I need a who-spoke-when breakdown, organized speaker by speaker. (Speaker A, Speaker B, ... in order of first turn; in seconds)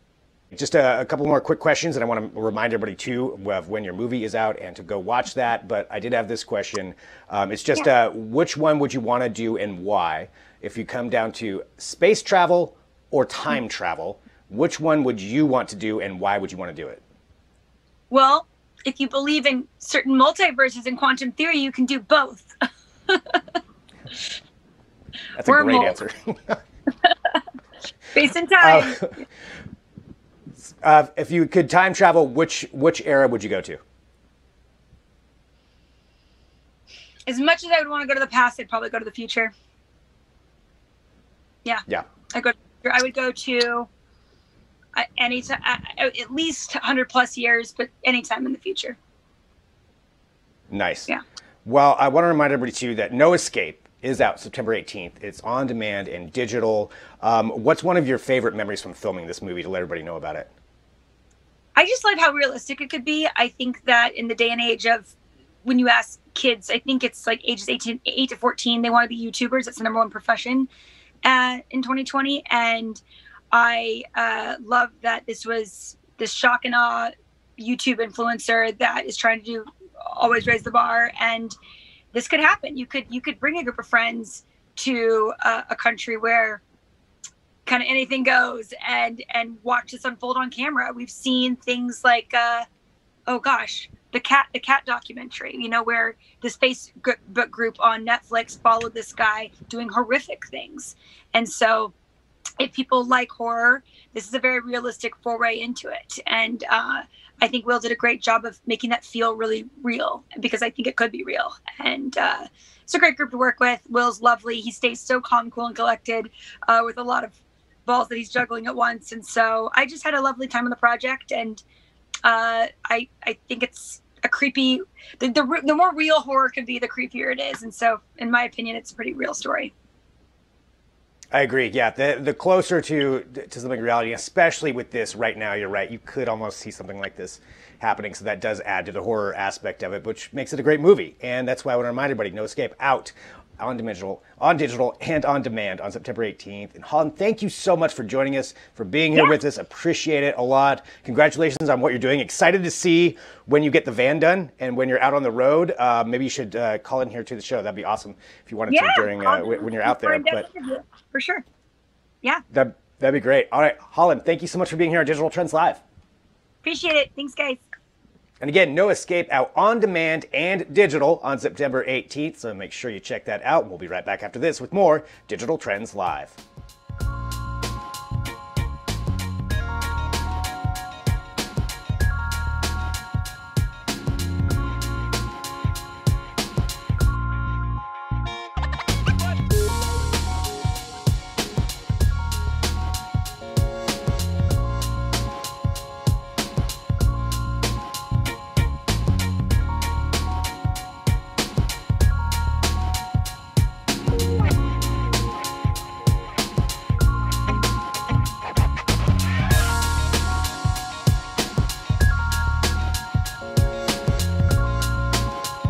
Speaker A: 0.5-17.0, 25.3-26.6, 28.6-29.1, 30.6-33.8, 50.7-51.1, 51.6-60.5, 131.3-160.5, 162.5-165.8, 168.4-176.4
Speaker B: 18.1-22.5, 23.1-23.4, 25.4-26.0, 28.1-29.1, 37.3-39.5, 41.6-43.9, 44.9-49.0, 61.8-65.1, 65.7-70.7, 71.2-81.5, 82.1-86.6, 87.7-92.7, 93.3-101.9, 102.6-121.6, 122.2-129.7, 158.7-161.4, 166.6-167.6